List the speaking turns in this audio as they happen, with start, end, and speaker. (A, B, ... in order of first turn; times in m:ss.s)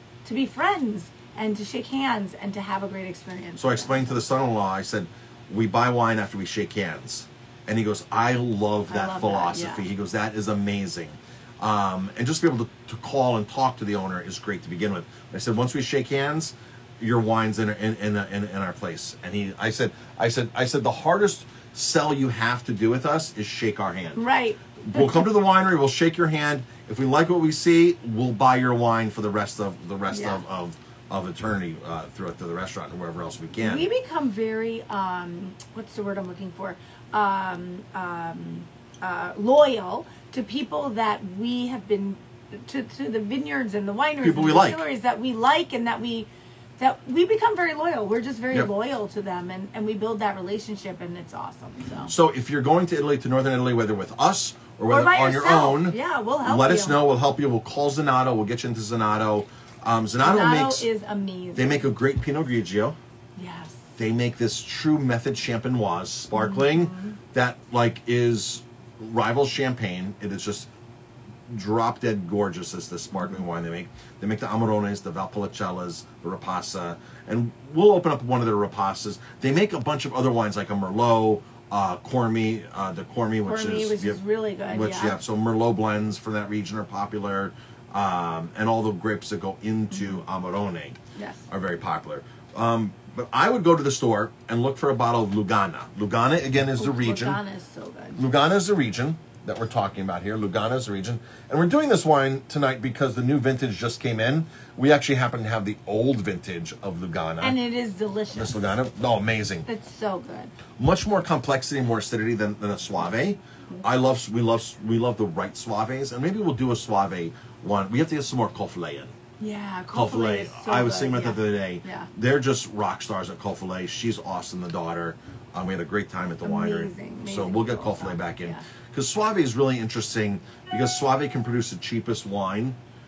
0:00.2-0:04.1 A
0:03.6-0:24.2 B
0:08.9-0:09.8 A
0:24.2-0:25.3 A
0:24.8-0:33.9 B
0:30.1-0:30.4 A
0:33.6-0:52.1 A
0:44.2-0:44.8 B
0:52.1-1:00.9 B
0:54.9-0:57.0 A
1:00.2-1:01.9 A
1:01.6-1:03.0 B
1:03.4-1:03.8 A
1:04.0-1:10.7 B
1:06.3-1:07.2 A
1:11.5-1:31.0 B
1:23.4-1:25.2 A
1:29.9-1:30.2 A
1:31.2-1:31.4 A
1:31.5-1:37.4 B
1:36.8-1:38.2 A
1:38.2-1:47.6 B
1:47.4-1:48.7 A
1:48.3-1:49.7 B
1:49.6-1:50.5 A
1:50.8-1:59.1 B
1:59.4-2:02.1 A
1:59.9-2:12.8 B
2:06.4-2:08.6 A